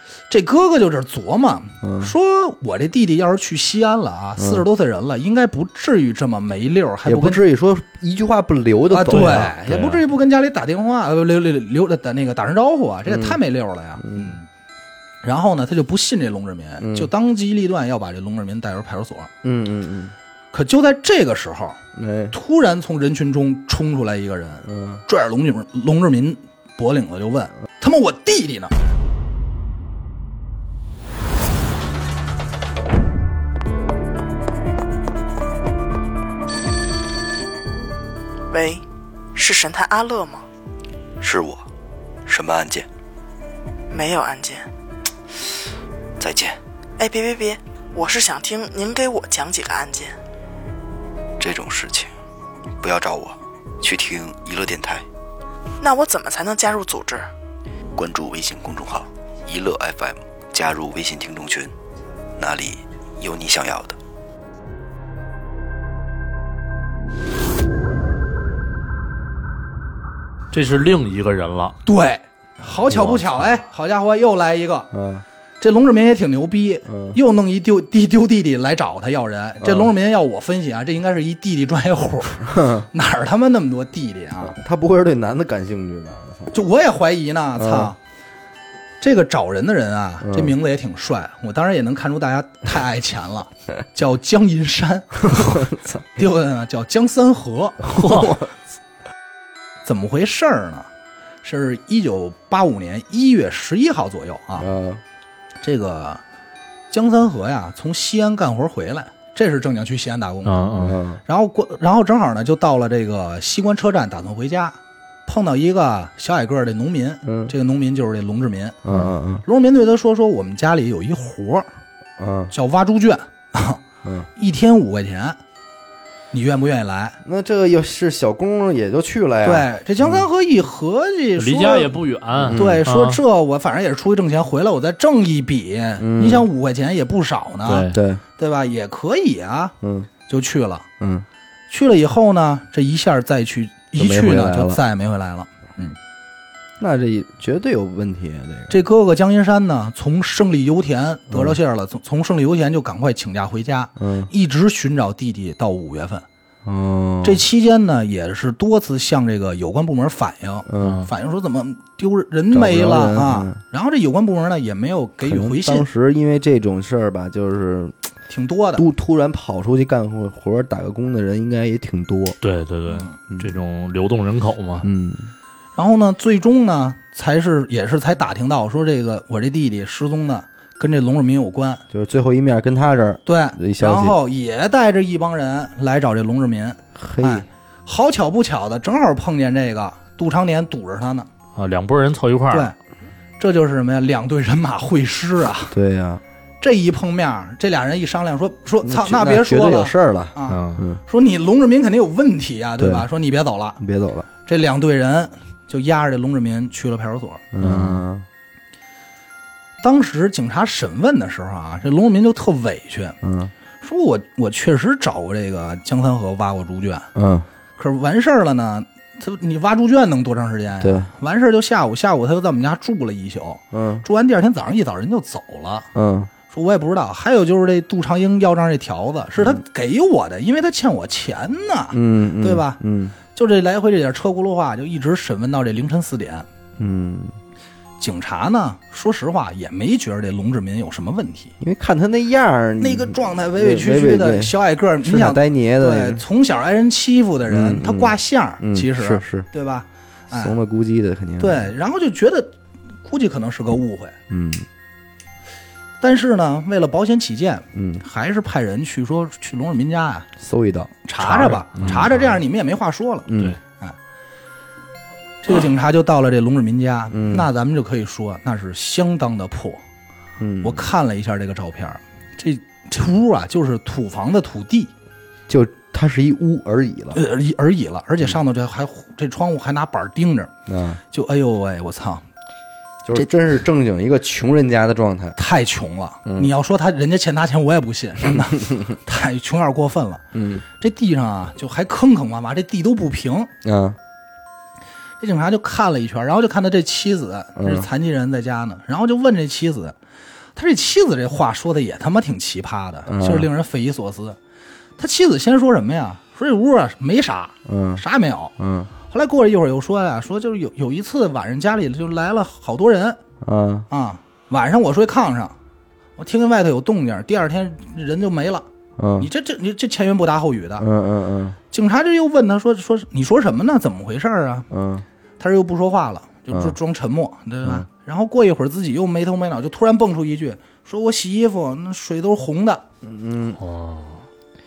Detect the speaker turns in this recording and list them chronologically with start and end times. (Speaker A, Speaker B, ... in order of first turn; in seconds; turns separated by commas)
Speaker A: 0.3-7.4, Speaker B: 1.8-2.1, Speaker B: 4.4-4.6, Speaker B: 7.0-9.5, Speaker A: 8.9-14.4, Speaker C: 9.1-10.0, Speaker B: 13.1-13.4, Speaker B: 14.0-14.3, Speaker A: 15.2-19.3, Speaker B: 16.8-17.1, Speaker B: 19.4-20.1, Speaker A: 20.5-21.8, Speaker B: 21.9-22.3, Speaker A: 22.3-28.7, Speaker B: 24.6-25.0, Speaker D: 38.5-38.8, Speaker D: 39.3-40.4, Speaker E: 41.2-41.7, Speaker E: 42.2-42.9, Speaker D: 43.9-44.7, Speaker E: 46.2-46.6, Speaker D: 47.0-50.1, Speaker E: 51.4-52.1, Speaker E: 52.8-55.0, Speaker D: 55.8-57.3, Speaker E: 58.0-61.7, Speaker E: 62.4-64.0, Speaker C: 70.5-71.8, Speaker A: 71.8-74.9, Speaker B: 72.9-73.2, Speaker B: 74.9-75.2, Speaker A: 75.6-84.6, Speaker B: 76.8-77.2, Speaker B: 79.6-79.9, Speaker B: 82.4-82.9, Speaker B: 84.4-86.5, Speaker A: 86.5-88.0, Speaker B: 87.5-87.9, Speaker A: 89.0-97.9, Speaker B: 90.2-90.5, Speaker B: 95.3-96.0, Speaker B: 97.9-98.5, Speaker C: 97.9-98.4, Speaker A: 99.8-100.9, Speaker A: 101.4-104.7, Speaker B: 104.6-105.0, Speaker A: 105.6-106.2, Speaker A: 106.9-118.8, Speaker C: 110.4-111.0, Speaker B: 110.8-111.2, Speaker B: 117.2-117.5, Speaker B: 118.8-119.4, Speaker A: 119.4-121.7, Speaker B: 122.2-122.5, Speaker A: 122.5-123.8, Speaker A: 124.3-125.4, Speaker A: 126.3-127.2, Speaker B: 127.2-129.7, Speaker A: 129.4-131.9, Speaker C: 131.4-133.2, Speaker B: 132.3-132.8, Speaker A: 132.5-139.7, Speaker B: 136.0-136.5, Speaker C: 137.6-138.0, Speaker B: 137.9-138.2, Speaker B: 139.8-140.1, Speaker A: 140.3-140.9, Speaker B: 141.0-141.2, Speaker A: 141.7-145.9, Speaker B: 143.9-144.8, Speaker B: 146.8-148.8, Speaker A: 148.7-156.2, Speaker B: 151.3-151.6, Speaker B: 154.0-154.3, Speaker B: 156.6-157.4, Speaker A: 157.2-165.9, Speaker B: 160.7-161.1, Speaker C: 160.8-161.1, Speaker B: 162.5-163.6, Speaker B: 165.2-167.9, Speaker A: 168.3-168.8, Speaker B: 168.8-172.4, Speaker C: 172.4-174.9, Speaker A: 172.9-173.1, Speaker B: 173.3-173.5, Speaker B: 174.8-175.3, Speaker A: 175.8-181.8, Speaker B: 181.9-184.2, Speaker A: 183.2-191.3, Speaker B: 186.9-187.4, Speaker C: 191.6-192.7, Speaker A: 193.4-195.7, Speaker B: 195.7-196.2, Speaker A: 196.6-203.8, Speaker B: 198.8-201.0, Speaker C: 200.5-200.8, Speaker B: 202.8-203.1, Speaker B: 203.8-204.3, Speaker A: 204.4-207.5, Speaker B: 207.5-208.2, Speaker C: 207.6-208.0, Speaker A: 209.8-213.2, Speaker B: 213.2-213.5, Speaker A: 213.8-217.1, Speaker B: 217.1-217.5, Speaker A: 217.8-225.9, Speaker B: 220.8-221.1, Speaker B: 223.7-224.0, Speaker B: 225.9-226.3, Speaker A: 226.5-232.8, Speaker B: 231.9-233.2, Speaker A: 233.3-236.4, Speaker B: 236.8-237.3, Speaker A: 238.0-241.5, Speaker B: 241.6-246.2, Speaker A: 242.8-250.6, Speaker B: 247.5-249.5, Speaker B: 250.3-251.7, Speaker A: 251.4-252.5, Speaker A: 253.0-254.2, Speaker B: 254.3-254.7, Speaker A: 256.0-260.3, Speaker B: 257.7-258.0, Speaker B: 260.4-261.0, Speaker A: 261.0-263.3, Speaker C: 261.2-262.4, Speaker B: 261.5-262.1, Speaker B: 263.3-263.6, Speaker A: 265.4-269.8, Speaker B: 267.1-267.5, Speaker B: 270.4-270.9, Speaker A: 270.6-274.9, Speaker B: 275.5-277.2, Speaker A: 277.1-280.5, Speaker B: 280.7-281.0, Speaker A: 281.1-282.2, Speaker B: 283.0-285.4, Speaker A: 285.4-290.2, Speaker B: 286.2-286.5, Speaker B: 288.4-288.8, Speaker B: 290.3-290.6, Speaker A: 290.8-293.5, Speaker B: 293.6-294.0, Speaker A: 295.2-299.9, Speaker B: 297.5-297.9, Speaker A: 300.6-304.4, Speaker B: 303.1-303.5, Speaker A: 305.0-313.2, Speaker B: 307.6-308.0, Speaker B: 308.6-308.9, Speaker B: 313.4-313.9, Speaker A: 313.9-315.5, Speaker A: 316.2-318.6, Speaker B: 319.0-319.3, Speaker A: 319.2-320.9, Speaker B: 320.8-321.6, Speaker A: 321.7-324.7, Speaker B: 324.7-325.0, Speaker A: 325.4-332.8, Speaker B: 326.5-326.8, Speaker B: 333.0-333.6, Speaker C: 333.6-334.2